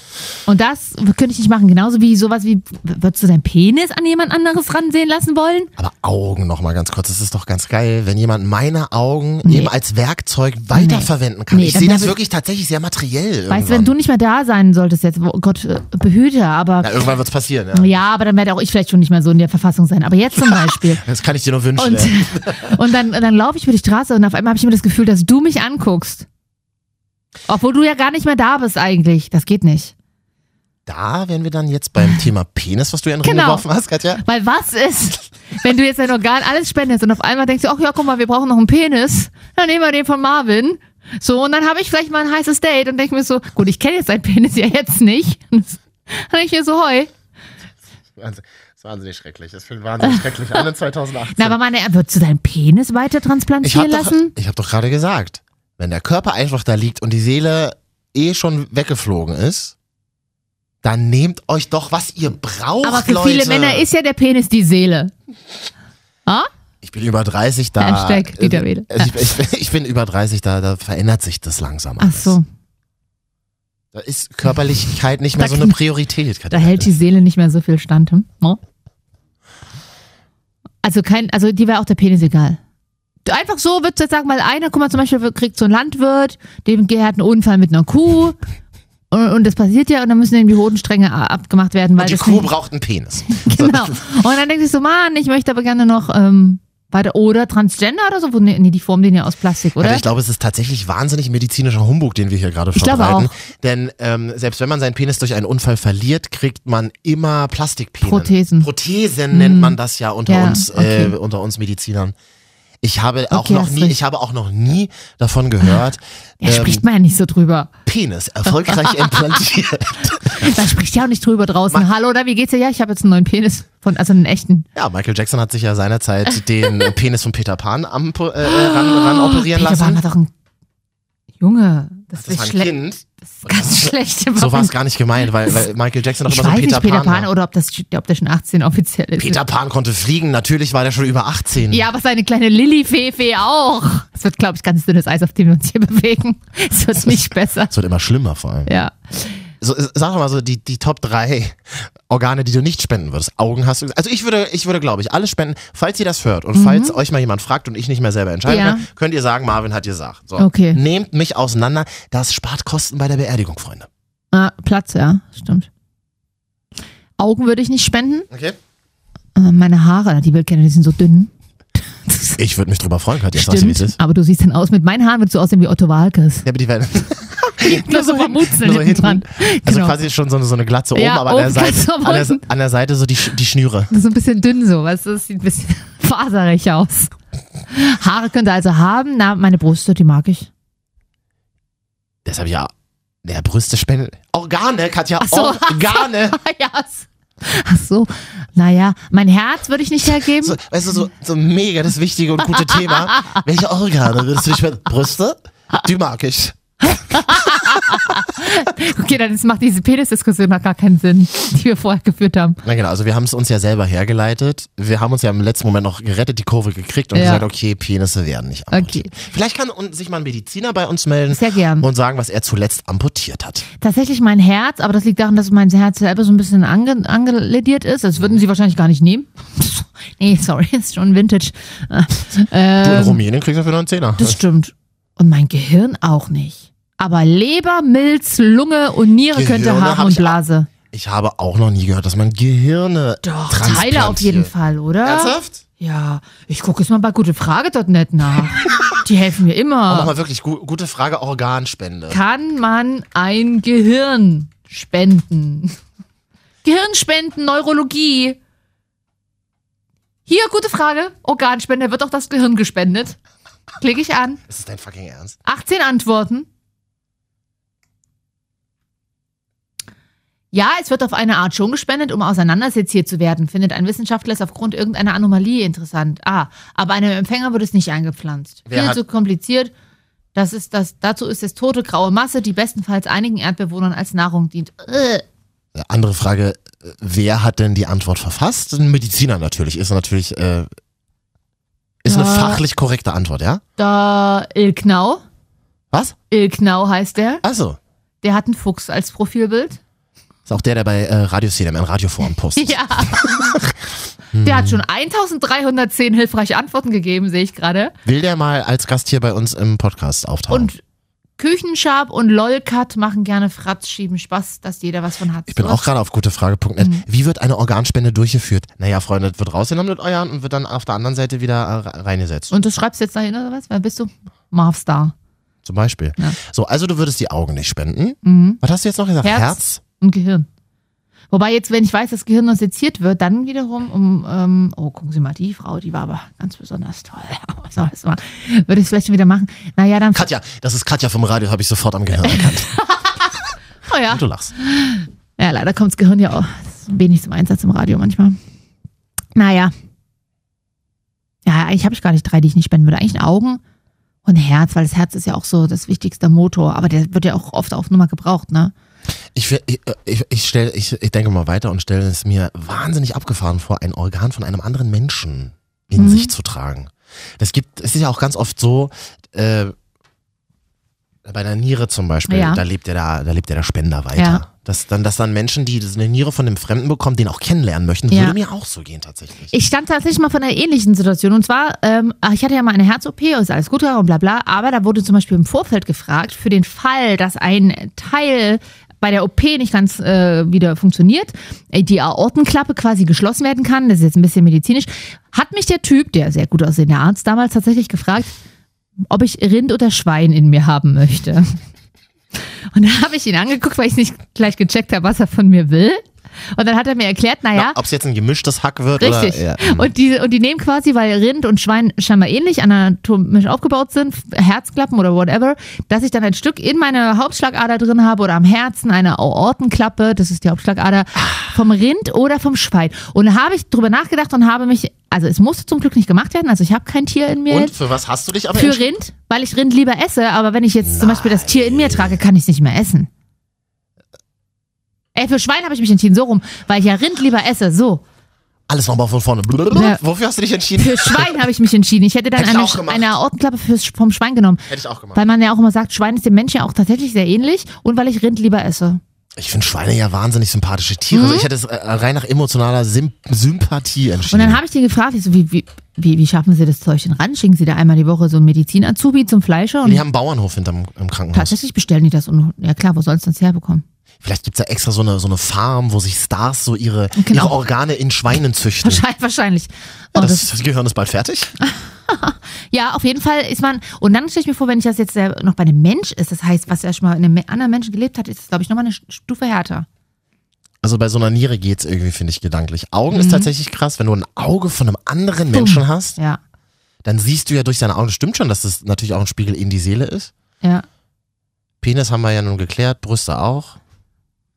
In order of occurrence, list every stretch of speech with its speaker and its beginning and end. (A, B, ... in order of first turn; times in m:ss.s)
0:00.5-0:05.7 A
0:05.8-0:13.9 B
0:09.4-0:09.7 A
0:10.7-0:12.2 A
0:13.5-0:16.9 A
0:16.8-0:17.9 B
0:17.7-0:21.0 A
0:20.4-0:22.8 B
0:21.8-0:26.3 A
0:27.5-0:29.9 A
0:30.9-0:34.2 B
0:33.2-0:33.6 A
0:34.2-0:47.1 A
0:48.2-0:51.6 B
0:50.0-0:50.6 A
0:51.4-0:54.3 A
0:53.6-0:59.8 B
1:00.8-1:03.9 B
1:02.8-1:05.1 A
1:06.8-1:12.4 B
1:07.8-1:09.1 A
1:12.0-1:12.5 A
1:13.9-1:16.9 B
1:15.4-1:15.8 A
1:16.5-1:18.6 A
1:20.8-1:22.6 A
1:23.2-1:28.4 A
1:29.1-1:32.5 A
1:32.0-1:34.0 B
1:33.4-1:40.1 A
1:39.8-1:52.2 B
1:42.8-1:43.3 A
1:48.0-1:48.7 A
1:49.3-1:49.8 A
1:50.3-1:51.2 A
1:52.8-1:56.8 B
1:53.3-1:54.0 A
1:56.4-1:57.7 A
1:57.9-2:00.6 B
1:58.5-1:59.2 A
2:00.2-2:04.7 A
2:04.8-2:10.0 B
2:08.4-2:10.3 A
2:11.4-2:14.7 A
2:12.1-2:17.3 B
2:16.3-2:19.4 A
2:19.2-2:21.9 B
2:21.7-2:27.7 A
2:27.7-2:28.7 B
2:28.7-2:29.4 A
2:29.6-2:43.9 B
2:36.6-2:37.0 A
2:38.5-2:38.8 A
2:40.4-2:40.8 A
2:44.3-2:45.7 A
2:47.2-2:48.3 A
2:48.3-2:48.6 B
2:49.4-2:51.3 A
2:52.1-2:52.4 A
2:52.4-2:54.0 B
2:53.3-2:56.5 A
2:56.4-3:03.9 B
2:57.6-3:00.0 A
3:01.0-3:02.4 A
3:03.9-3:07.1 A
3:07.7-3:10.5 A
3:12.2-3:12.7 B
3:13.2-3:16.4 B
3:15.2-3:20.6 A
3:20.4-3:27.4 B
3:26.9-3:32.6 A
3:32.6-3:43.7 B
3:37.1-3:37.5 A
3:38.7-3:39.1 A
3:41.3-3:41.9 A
3:43.8-3:53.2 A
3:48.2-3:48.4 B
3:52.8-3:54.4 B
3:54.2-4:00.7 A
3:59.3-4:00.4 B
4:00.9-4:04.5 B
4:03.2-4:10.1 A
4:05.0-4:05.6 B
4:09.9-4:12.2 B
4:12.1-4:15.8 A
4:16.6-4:18.4 A
4:20.3-4:23.2 A
4:23.8-4:24.4 A
4:24.5-4:25.4 B
4:25.4-4:26.5 A
4:30.5-4:39.7 A
4:38.7-4:39.0 B
4:40.4-4:45.2 A
4:45.8-4:50.7 B
4:52.0-4:53.6 B
4:52.1-4:52.6 A
4:53.8-4:55.2 A
4:55.9-4:56.2 B
4:56.3-4:57.4 A
4:57.4-4:57.8 B
4:58.2-4:59.8 A
5:00.5-5:03.7 B
5:02.6-5:03.7 A
5:04.3-5:04.8 B
5:04.4-5:07.9 A
5:08.0-5:10.7 B
5:10.5-5:10.8 A
5:11.4-5:15.8 A
5:15.5-5:22.5 B
5:16.8-5:17.0 A
5:22.5-5:25.1 A
5:25.6-5:29.8 B
5:28.2-5:28.6 A
5:29.2-5:30.5 A
5:31.3-5:40.3 A
5:40.1-5:42.7 B
5:42.2-5:43.3 A
5:43.9-5:48.4 A
5:44.1-5:44.5 B
5:49.4-5:49.7 A
5:51.5-5:53.6 A
5:54.2-5:58.7 A
5:59.3-6:09.8 B
6:06.0-6:06.3 A
6:11.2-6:19.5 B
6:12.3-6:12.6 A
6:14.2-6:14.4 A
6:18.1-6:18.4 A
6:19.5-6:38.3 A
6:39.1-6:41.6 A
6:42.7-6:47.8 A
6:47.6-6:49.9 B
6:49.0-7:07.8 A
7:07.5-7:08.9 B
7:08.5-7:13.1 A
7:10.8-7:12.2 B
7:15.2-7:18.0 A
7:18.7-7:21.4 B
7:19.7-7:20.0 A
7:20.8-7:29.0 A
7:22.4-7:23.1 B
7:24.7-7:25.2 B
7:29.4-7:34.6 B
7:31.1-7:31.5 A
7:34.3-7:40.0 A
7:39.8-7:41.6 B
7:41.3-7:43.8 A
7:44.2-7:49.0 B
7:47.2-7:47.6 A
7:48.8-7:50.5 A
7:50.2-7:51.5 B
7:51.6-7:59.9 A
8:00.8-8:06.2 B
8:03.1-8:03.5 A
8:05.5-8:06.4 A
8:07.0-8:10.3 B
8:11.8-8:13.8 B